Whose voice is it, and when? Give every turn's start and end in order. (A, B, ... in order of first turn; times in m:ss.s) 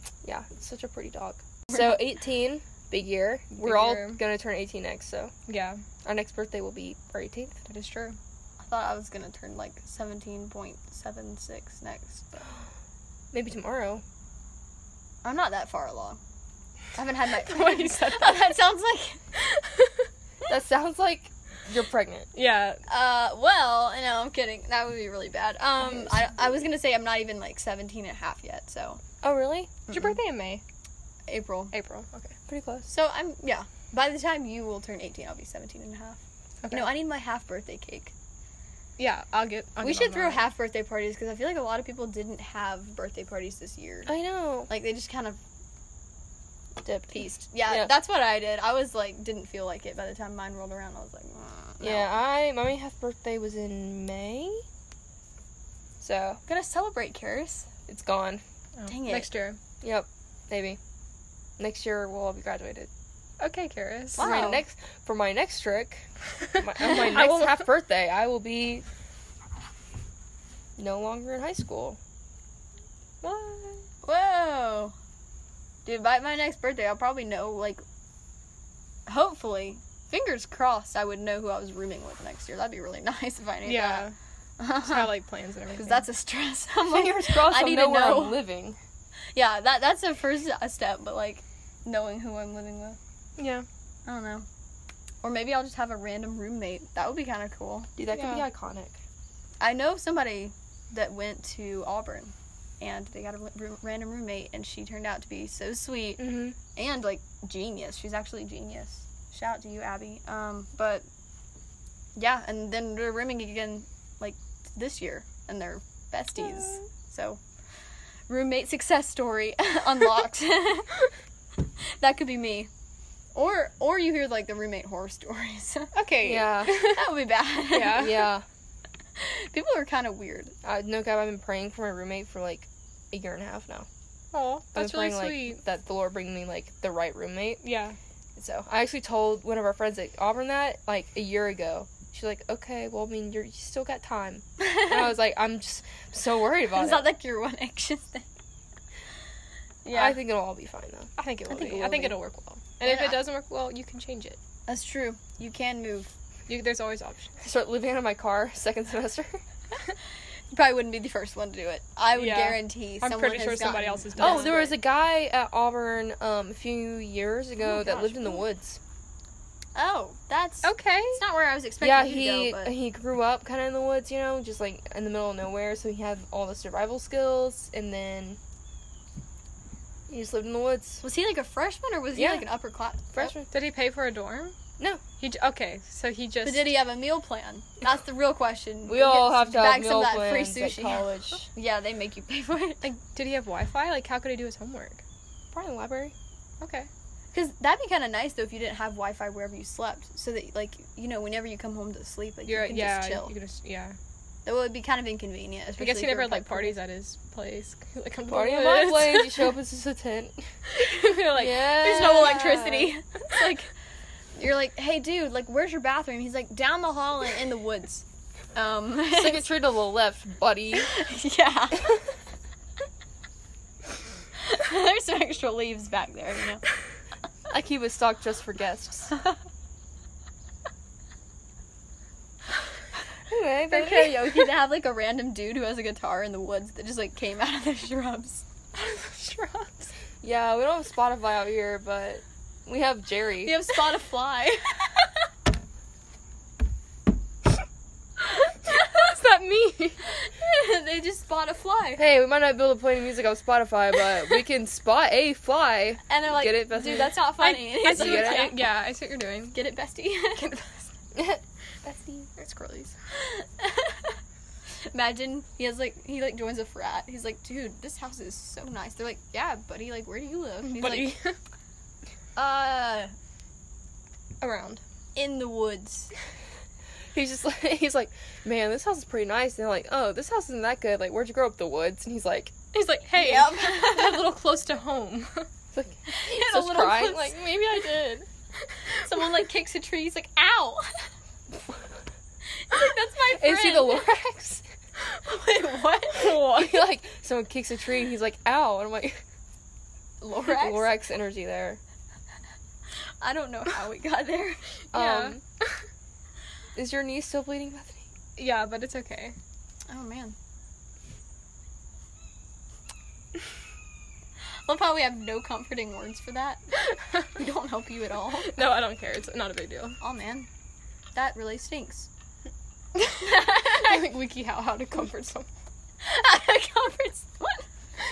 0:00.2-0:05.3 A
0:01.7-0:02.0 B
0:03.5-0:04.2 C
0:05.5-0:05.8 C
0:06.0-0:07.6 A
0:07.7-0:08.2 C
0:08.6-0:12.5 B
0:13.3-0:14.0 A
0:15.2-0:16.2 B
0:17.0-0:19.2 B
0:17.4-0:18.6 C
0:19.4-0:20.0 C
0:20.5-0:22.3 A
0:22.3-0:22.8 C
0:22.9-0:29.0 B
0:29.2-0:29.7 A
0:29.9-0:30.6 C
0:31.3-0:31.7 B
0:31.7-0:32.4 C
0:32.5-0:32.9 A
0:32.9-0:36.2 B
0:36.6-0:36.9 C
0:36.7-0:38.1 B
0:39.0-0:40.5 C
0:39.8-0:44.1 B
0:44.1-0:44.7 A
0:44.7-0:45.4 B
0:46.8-0:48.0 A
0:47.1-0:52.2 B
0:51.8-0:54.6 A
0:56.0-0:56.4 A
0:56.5-0:57.7 B
0:57.9-0:58.4 A
0:58.8-0:59.6 C
0:58.9-0:59.3 B
0:59.8-1:00.8 A
1:01.6-1:02.9 A
1:03.4-1:04.3 C
1:04.2-1:04.6 B
1:04.2-1:06.1 A
1:06.6-1:08.8 A
1:06.8-1:07.7 C
1:10.8-1:12.0 A
1:13.2-1:13.8 C
1:14.0-1:15.0 B
1:15.9-1:17.8 B
1:19.1-1:24.1 B
1:23.6-1:24.1 C
1:24.6-1:25.1 B
1:24.8-1:26.1 C
1:25.7-1:28.4 B
1:26.8-1:28.8 A
1:29.4-1:33.0 B
1:33.4-1:33.7 C
1:34.1-1:34.5 B
1:35.2-1:37.9 B
1:38.0-1:39.0 A
1:38.1-1:38.5 C
1:39.6-1:51.0 B
1:46.2-1:46.6 A
1:52.2-1:57.4 B
1:58.3-2:01.0 B
2:01.8-2:02.7 B
2:03.4-2:06.0 B
2:05.9-2:07.1 C
2:06.2-2:06.8 A
2:06.7-2:08.2 B
2:07.7-2:08.3 C
2:07.8-2:08.4 A
2:09.2-2:10.6 B
2:10.6-2:13.9 A
2:14.3-2:15.6 C
2:14.7-2:17.6 A
2:17.6-2:18.0 C
2:18.5-2:27.1 A
2:24.6-2:25.1 B
2:26.7-2:28.2 B
2:29.8-2:30.2 B
2:29.9-2:31.1 A
2:31.2-2:34.4 C
2:31.5-2:32.2 B
2:32.8-2:33.2 B
2:34.7-2:36.1 B
2:36.5-2:37.4 C
2:37.4-2:39.4 A
2:40.5-2:44.8 B
2:42.1-2:44.7 C
2:44.2-2:48.8 A
2:47.6-2:48.4 B
2:49.8-2:52.8 B
2:50.6-2:51.2 C
2:51.8-2:58.4 A
3:00.1-3:01.0 A
3:01.0-3:03.3 B
3:02.2-3:02.5 A
3:03.1-3:03.5 A
3:03.5-3:04.6 C
3:05.2-3:06.8 C
3:06.4-3:13.0 B
3:08.9-3:11.5 A
3:13.1-3:15.0 C
3:15.5-3:16.1 A
3:16.6-3:16.9 C
3:17.3-3:23.3 B
3:22.5-3:24.0 C
3:24.4-3:26.8 B
3:25.8-3:29.5 C
3:28.3-3:30.5 A
3:30.7-3:32.6 C
3:31.4-3:32.9 A
3:31.8-3:33.7 B
3:34.4-3:39.5 B
3:39.1-3:40.9 A
3:40.9-3:42.0 B
3:44.4-3:46.6 B
3:47.5-3:49.2 A
3:53.3-3:54.5 A
3:53.7-3:58.4 B
3:58.7-3:59.9 C
4:00.2-4:03.6 A
4:03.4-4:05.0 B
4:08.9-4:10.0 A
4:10.1-4:12.1 B
4:12.0-4:17.2 A
4:16.1-4:18.6 B
4:17.1-4:19.6 C
4:17.9-4:18.6 A
4:19.5-4:20.4 B
4:20.3-4:20.9 C
4:21.2-4:22.3 A
4:22.4-4:23.0 C
4:23.1-4:24.2 B
4:24.9-4:31.1 B
4:30.7-4:31.4 C
4:32.4-4:33.1 B
4:34.4-4:34.8 C
4:35.2-4:36.1 B
4:37.1-4:42.5 A
4:42.7-4:45.5 C
4:43.2-4:44.4 B
4:45.7-4:48.3 A
4:46.1-4:47.4 B
4:49.0-4:51.1 B
4:52.6-4:54.1 B
4:53.3-4:54.6 A
4:55.2-4:56.4 B
4:56.0-4:56.8 C
4:56.3-4:59.2 A
5:00.2-5:00.9 B
5:00.4-5:01.8 A
5:03.2-5:04.6 B
5:04.9-5:05.4 A
5:04.9-5:05.7 C
5:06.8-5:08.1 A
5:08.4-5:09.4 C
5:09.9-5:10.4 B
5:14.7-5:16.6 B
5:17.4-5:18.6 B
5:18.4-5:20.0 C
5:20.0-5:20.5 B
5:21.2-5:22.1 B
5:23.0-5:25.5 C
5:23.2-5:24.1 B
5:26.0-5:27.7 B